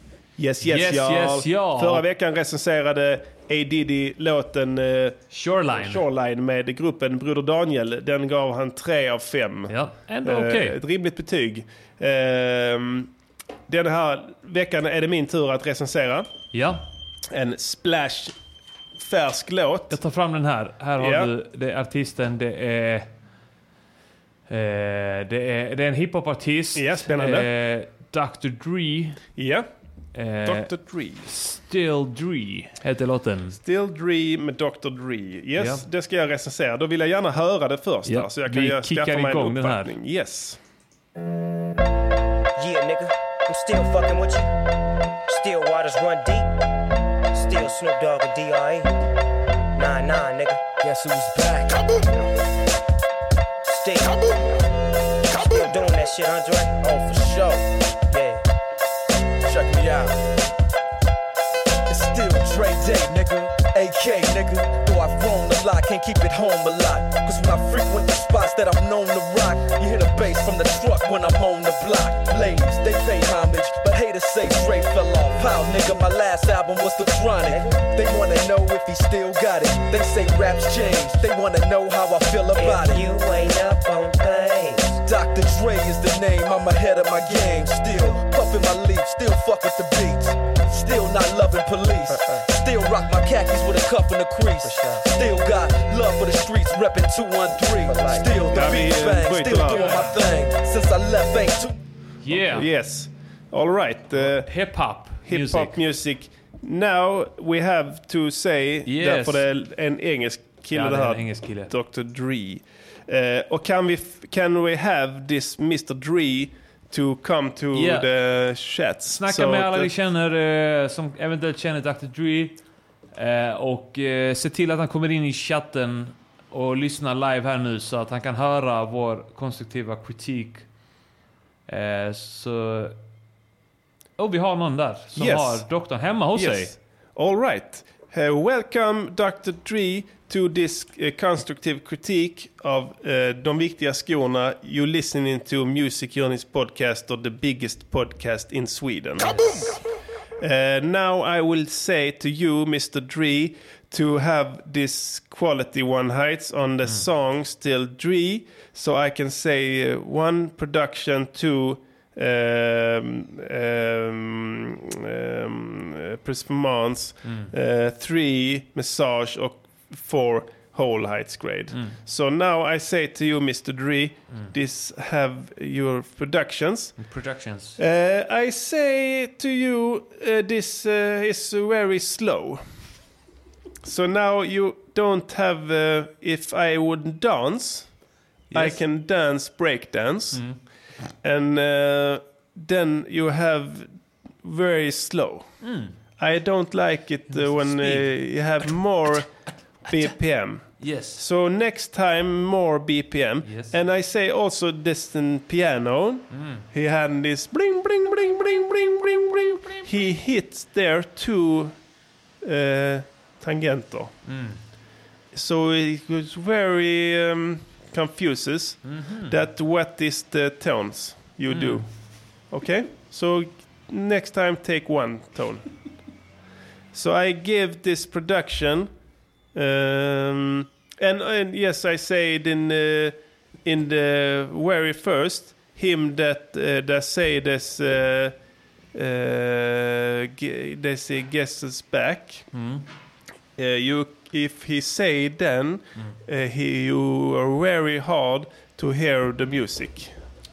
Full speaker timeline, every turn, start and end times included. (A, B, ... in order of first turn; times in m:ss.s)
0:00.4-0:05.2 A
0:00.6-0:02.0 B
0:05.3-0:06.0 B
0:05.7-0:13.1 A
0:09.7-0:10.8 B
0:13.7-0:16.3 A
0:16.5-0:16.8 B
0:17.3-0:18.3 A
0:19.0-0:20.0 A
0:19.9-0:23.1 B
0:21.0-0:21.3 A
0:24.5-0:29.2 B
0:26.7-0:27.5 A
0:29.4-0:29.7 A
0:30.1-0:30.7 B
0:30.4-0:31.3 A
0:31.2-0:33.6 B
0:33.6-0:40.6 A
0:35.6-0:35.8 B
0:38.0-0:39.9 B
0:42.6-0:44.5 C
0:45.3-0:46.5 C
0:47.3-0:48.9 C
0:49.8-0:50.6 C
0:50.8-0:51.9 D
0:53.6-0:54.3 C
0:55.3-0:56.8 C
0:56.8-0:57.6 D
0:58.1-0:58.4 C
0:59.4-1:00.2 D
1:01.9-1:23.0 D
1:17.4-1:17.8 C
1:22.5-1:25.0 C
1:25.0-1:41.8 D
1:34.6-1:35.0 C
1:37.9-1:38.4 C
1:38.5-1:40.0 A
1:39.7-1:40.2 B
1:42.2-1:42.7 B
1:42.4-1:44.5 A
1:44.2-1:45.8 B
1:45.2-1:59.9 A
1:48.8-1:49.4 B
1:50.7-1:51.7 B
1:57.7-1:58.1 B
1:59.1-2:02.6 B
2:03.1-2:10.6 B
2:11.7-2:13.0 B
2:14.2-2:16.7 B
2:15.2-2:15.6 A
2:16.3-2:29.7 A
2:30.4-2:57.0 A
2:47.2-2:47.5 B
2:57.0-2:57.8 B
2:57.8-3:02.6 A
3:03.8-3:07.9 A
3:08.5-3:08.8 B
3:08.5-3:10.4 A
3:11.2-3:15.5 A
3:15.6-3:15.9 B
3:16.2-3:19.3 A
3:17.3-3:18.1 B
3:19.9-3:31.7 A
3:20.8-3:21.2 B
3:23.4-3:23.7 B
3:26.3-3:26.6 B
3:32.4-3:34.1 A
3:34.2-3:34.6 B
3:35.3-3:41.9 A
3:38.8-3:39.4 B
3:41.5-3:41.8 B
3:42.5-3:45.6 A
3:46.9-3:48.9 A
3:49.5-3:58.4 A
3:58.9-4:02.5 A
4:02.5-4:02.8 B
4:03.6-4:10.1 A